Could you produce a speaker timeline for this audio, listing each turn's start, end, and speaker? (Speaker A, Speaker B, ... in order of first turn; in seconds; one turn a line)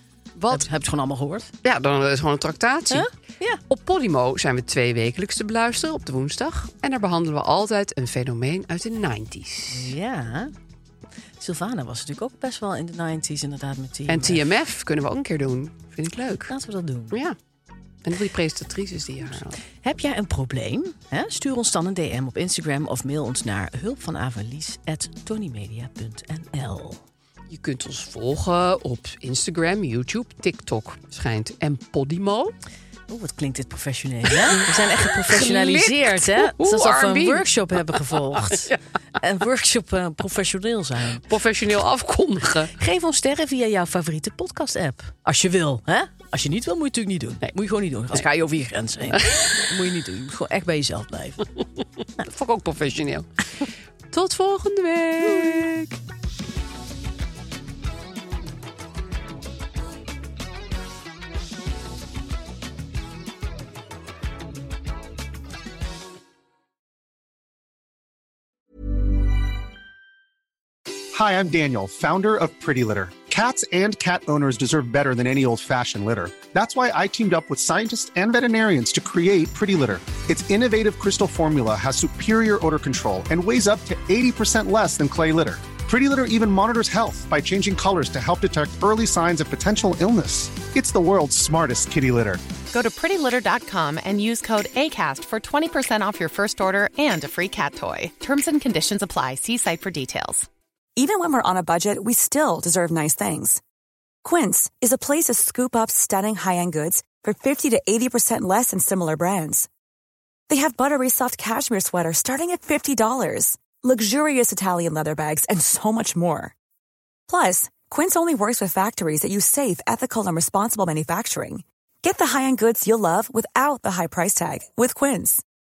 Speaker A: 0.3-0.7
Speaker B: 0.5-1.5
Speaker A: 1.6-3.1
Speaker B: 2.9-3.6
Speaker A: 3.7-9.9
Speaker B: 9.7-10.5
Speaker B: 11.4-14.4
Speaker A: 14.1-16.5
Speaker B: 16.5-17.2
Speaker A: 17.1-17.4
Speaker A: 18.0-19.6
Speaker B: 19.8-27.0
Speaker A: 27.5-32.5
Speaker B: 33.1-41.3
Speaker A: 34.5-38.8
Speaker A: 41.2-42.7
Speaker B: 42.8-51.5
Speaker A: 49.1-49.6
Speaker A: 52.2-53.3
Speaker A: 54.1-55.8
Speaker B: 55.2-55.9
Speaker C: 71.1-92.5
Speaker D: 92.7-100.5
Speaker E: 101.0-103.6
Speaker E: 104.2-109.7
Speaker E: 110.5-116.5
Speaker E: 117.3-125.4